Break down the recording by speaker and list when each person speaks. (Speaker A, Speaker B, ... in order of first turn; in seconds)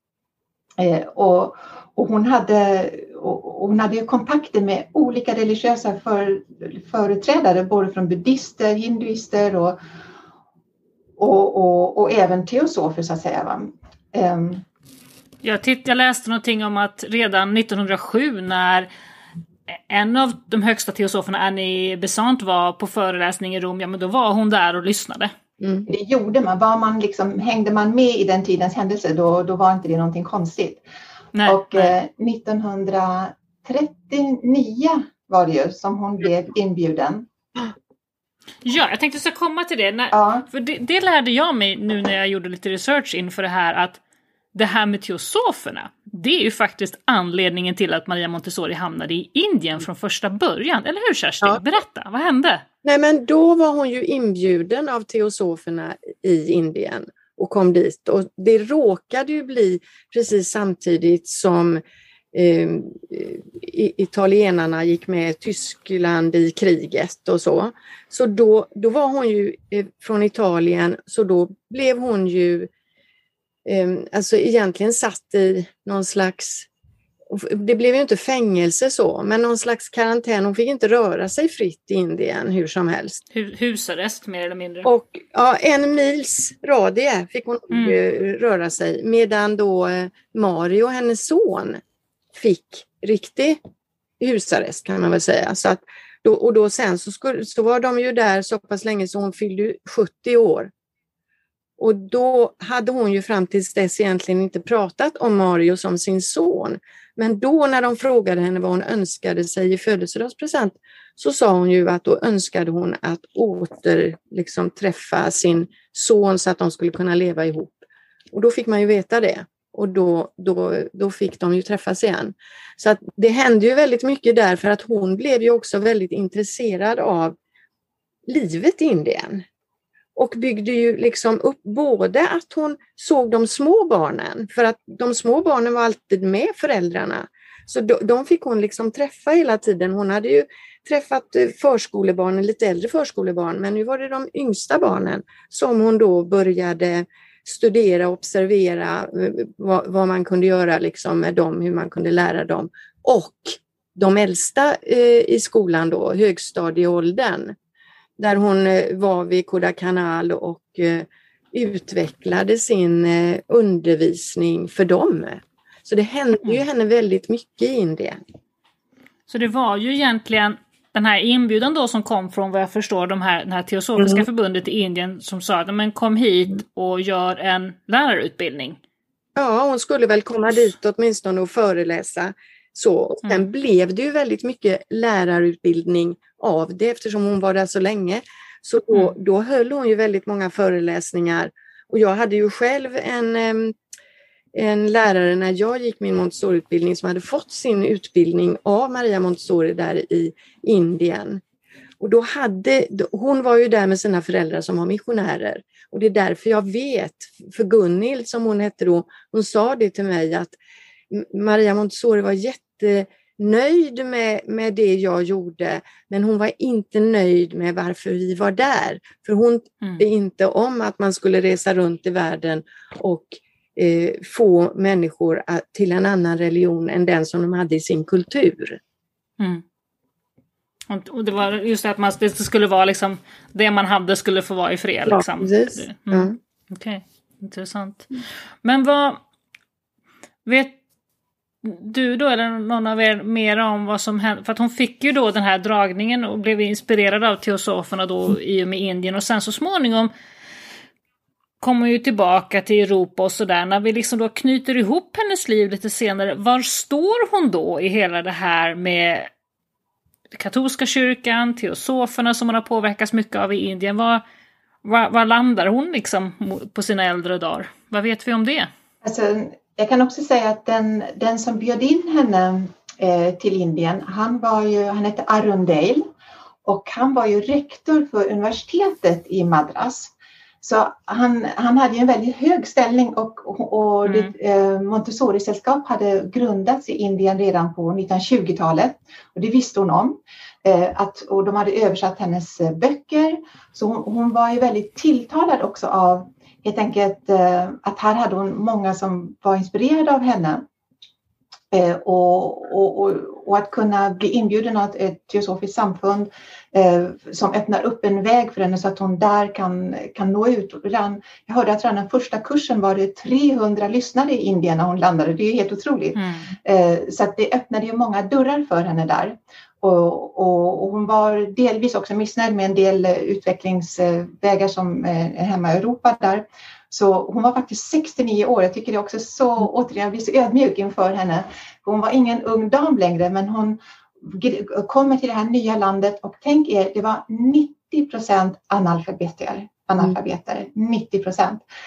Speaker A: 0.8-9.8, 11.2-14.6, 25.9-30.8, 31.5-37.3, 40.1-40.5, 269.0-276.1, 276.6-300.6, 301.7-341.6
Speaker B: 15.4-18.9, 19.7-25.3, 31.4-31.9, 38.6-44.0, 44.5-52.6, 83.3-84.9, 87.7-88.0, 169.3-178.8, 230.9-238.1, 238.6-239.2, 240.5-240.8, 241.6-250.1, 251.6-259.3, 260.3-264.2, 264.8-268.7, 284.1-284.3, 316.2-316.5
Speaker C: 25.6-25.9, 52.8-61.8, 62.3-72.7, 73.7-76.7, 77.3-83.2, 84.8-91.8, 92.3-93.6, 94.2-100.7, 101.8-127.4, 128.3-129.4, 130.2-157.6, 158.2-168.2, 174.0-174.2, 179.4-193.8, 194.5-201.4, 202.0-210.6, 211.1-228.8, 235.1-236.3